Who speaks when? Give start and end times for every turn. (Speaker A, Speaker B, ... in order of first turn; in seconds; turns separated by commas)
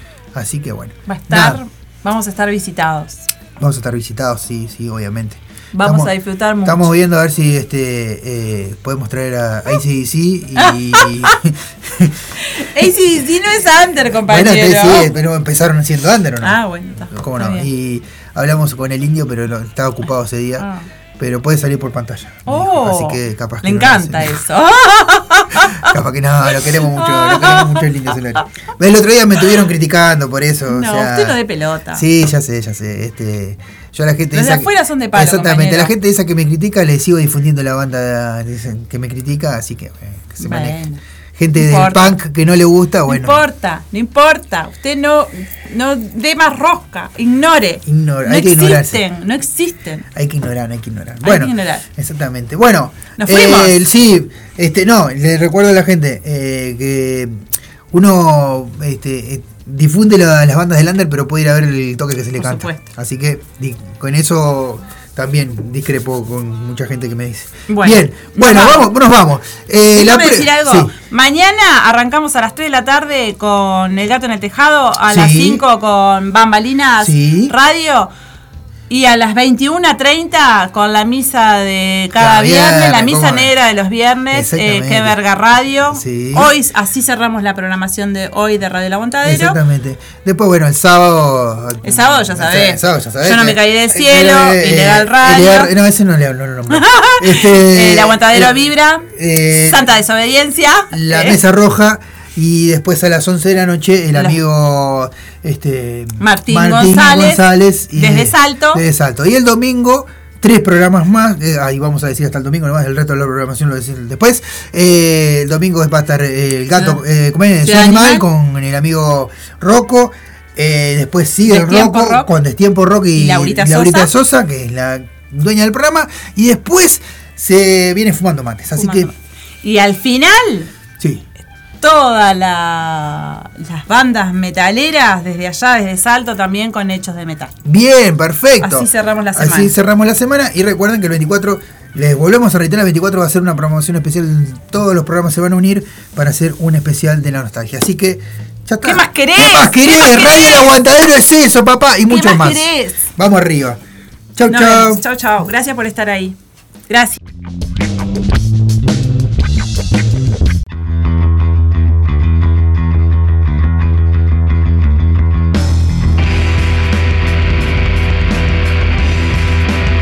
Speaker A: 0.3-1.6, Speaker B: 1.1-3.3, Speaker A: 3.6-12.2, Speaker B: 5.8-6.9, Speaker B: 10.6-11.3, Speaker B: 12.4-15.1, Speaker A: 14.1-24.4, Speaker B: 16.4-17.7, Speaker B: 20.6-20.9, Speaker B: 22.5-25.9, Speaker A: 25.7-31.4, Speaker B: 26.6-27.9, Speaker B: 30.7-32.0, Speaker A: 31.9-40.8, Speaker B: 34.3-35.9, Speaker B: 40.4-41.0, Speaker A: 41.4-43.4, Speaker B: 41.5-42.2, Speaker B: 43.1-50.1, Speaker A: 47.9-49.0, Speaker A: 50.1-70.9, Speaker B: 51.2-51.8, Speaker B: 53.2-53.8, Speaker B: 62.4-62.8, Speaker B: 67.7-68.9, Speaker B: 69.9-78.1, Speaker A: 75.1-75.6, Speaker A: 77.0-77.5, Speaker B: 78.9-89.6, Speaker A: 82.2-83.5, Speaker A: 84.3-85.2, Speaker A: 85.9-86.5, Speaker A: 89.2-99.9, Speaker B: 91.8-95.7, Speaker B: 96.7-99.1, Speaker B: 99.6-101.4, Speaker A: 100.9-129.1, Speaker B: 106.2-108.8, Speaker B: 117.6-118.2, Speaker B: 121.5-122.3, Speaker B: 123.2-124.1, Speaker B: 128.8-129.1, Speaker B: 129.6-130.7, Speaker A: 131.0-131.2, Speaker B: 131.8-137.5, Speaker A: 137.7-153.8, Speaker B: 138.6-139.7, Speaker B: 148.8-150.7, Speaker B: 152.1-153.0, Speaker A: 154.3-155.0, Speaker B: 154.5-156.4, Speaker B: 156.9-157.2